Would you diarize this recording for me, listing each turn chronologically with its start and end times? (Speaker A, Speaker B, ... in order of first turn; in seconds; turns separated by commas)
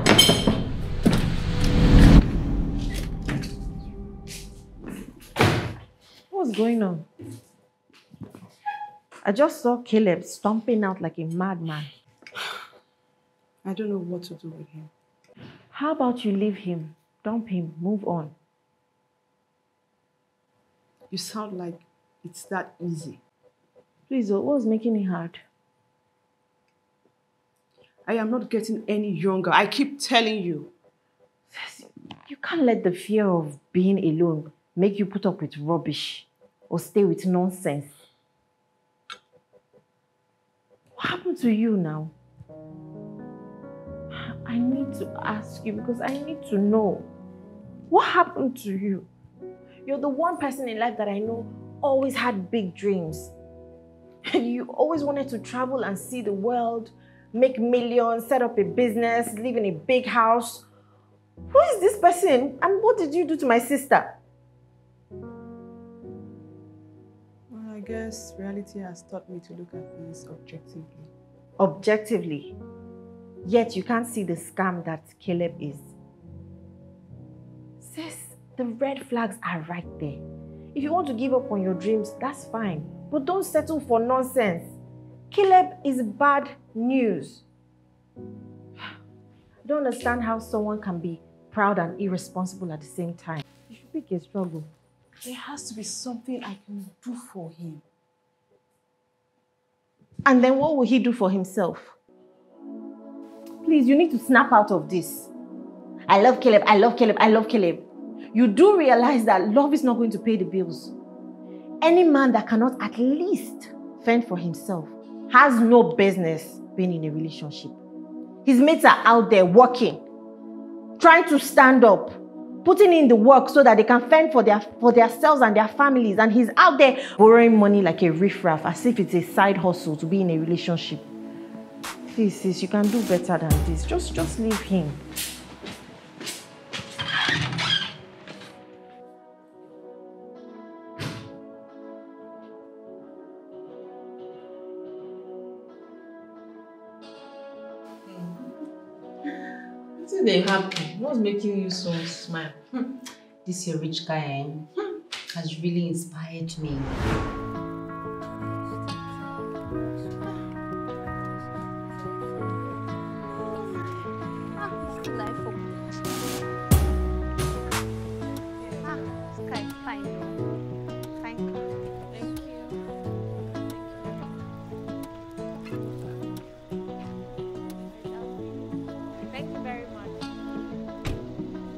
Speaker A: 6.3-7.1, Speaker A: 9.2-11.9, Speaker B: 13.6-14.9, Speaker A: 15.7-18.3, Speaker B: 21.1-23.2, Speaker A: 24.1-25.4, Speaker B: 28.1-30.7, Speaker A: 31.5-37.9, Speaker A: 41.0-42.1, Speaker A: 44.1-47.1, Speaker A: 47.9-49.1, Speaker A: 49.9-53.3, Speaker A: 54.3-60.6, Speaker A: 61.5-64.2, Speaker B: 67.5-71.1, Speaker A: 71.6-72.5, Speaker A: 73.5-75.9, Speaker A: 77.8-80.2, Speaker A: 80.7-84.8, Speaker A: 85.3-87.4, Speaker A: 89.7-94.7, Speaker B: 95.3-96.4, Speaker A: 96.4-97.5, Speaker B: 97.2-97.7, Speaker A: 100.2-102.0, Speaker A: 103.6-105.3, Speaker A: 106.1-110.9, Speaker A: 111.8-117.8, Speaker A: 118.5-120.0, Speaker A: 121.0-131.0, Speaker A: 132.1-135.0, Speaker A: 150.0-152.6, Speaker C: 153.4-154.7, Speaker C: 155.3-156.9, Speaker C: 164.6-165.7, Speaker A: 168.6-169.0, Speaker C: 168.8-170.4, Speaker C: 171.2-171.7, Speaker A: 172.1-172.7, Speaker A: 179.3-180.2